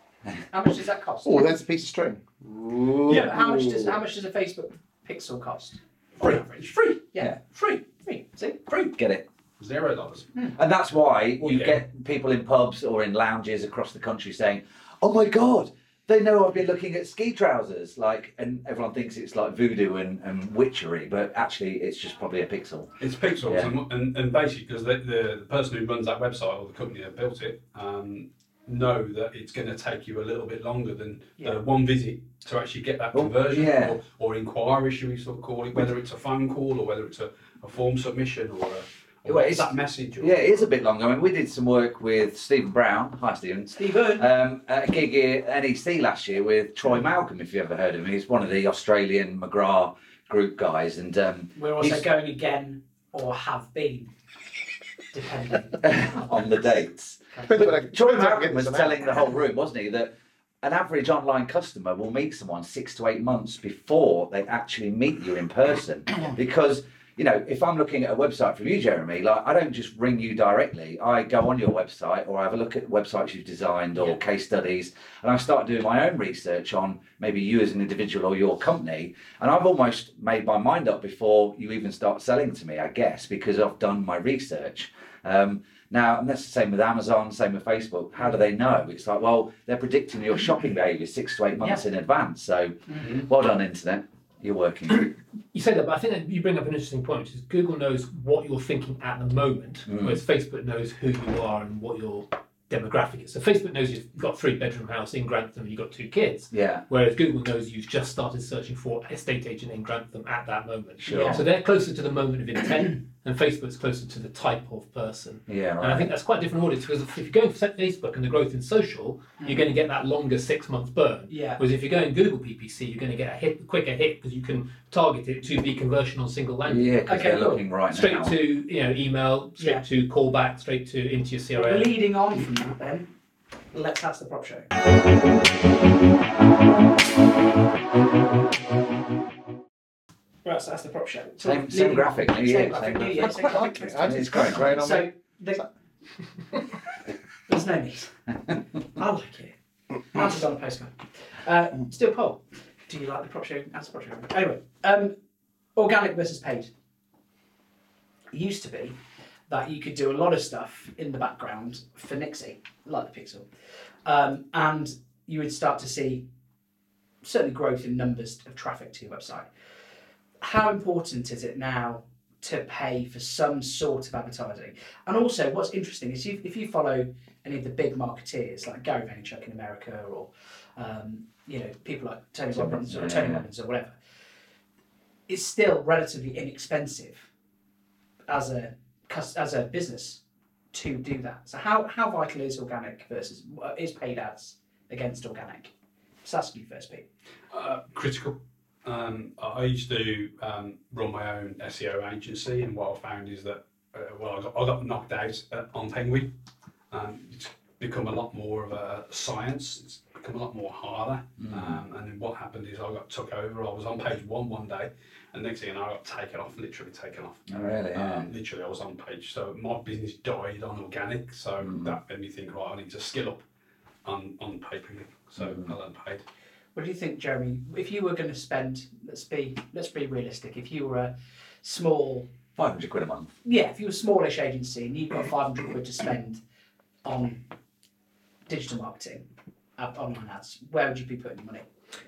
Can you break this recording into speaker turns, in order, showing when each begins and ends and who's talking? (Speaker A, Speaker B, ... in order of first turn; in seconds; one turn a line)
Speaker A: 0.5-1.5
Speaker B: 1.2-4.0
Speaker A: 3.0-8.9
Speaker C: 3.1-3.4
Speaker D: 8.9-9.2
Speaker C: 9.6-10.3
Speaker D: 10.6-22.9
Speaker C: 11.4-11.8
Speaker C: 23.0-40.7
Speaker D: 23.4-23.7
Speaker D: 33.1-34.0
Speaker D: 39.2-52.0
Speaker A: 43.7-44.3
Speaker A: 51.5-54.1
Speaker A: 55.1-56.4
Speaker D: 55.8-60.1
Speaker A: 57.3-57.8
Speaker B: 57.5-59.1
Speaker D: 60.6-95.1
Speaker A: 92.9-93.2
Speaker E: 95.5-127.0
Speaker D: 99.9-100.2
Speaker D: 106.5-106.8
Speaker D: 111.0-111.4
Speaker A: 111.1-111.4
Speaker D: 115.5-116.1
Speaker A: 119.4-119.6
Speaker A: 121.3-121.6
Speaker D: 126.6-128.4
Speaker A: 127.1-127.6
Speaker E: 127.9-131.9
Speaker A: 129.6-129.8
Speaker A: 131.5-133.1
Speaker A: 133.7-134.7
Speaker A: 140.4-145.6
Speaker D: 141.4-144.8
Speaker B: 143.2-145.6
Speaker A: 147.5-148.2
Speaker A: 148.8-149.5
Speaker A: 150.1-155.1
Speaker A: 155.8-156.7
Speaker A: 158.3-163.5
Speaker A: 164.0-166.3
Speaker A: 167.2-169.5
Speaker A: 170.4-183.9
Speaker D: 182.5-183.4
Speaker A: 185.3-187.3
Speaker A: 188.3-190.2
Speaker A: 190.7-195.7
Speaker A: 196.2-197.1
Speaker C: 197.5-206.3
Speaker C: 206.9-223.4
Speaker D: 211.4-211.8
Speaker D: 217.5-218.3
Speaker D: 221.6-222.0
Speaker C: 224.0-226.2
Speaker D: 225.4-225.7
Speaker A: 226.7-232.3
Speaker D: 232.6-233.3
Speaker A: 233.4-236.4
Speaker A: 237.0-237.4
Speaker A: 238.5-241.6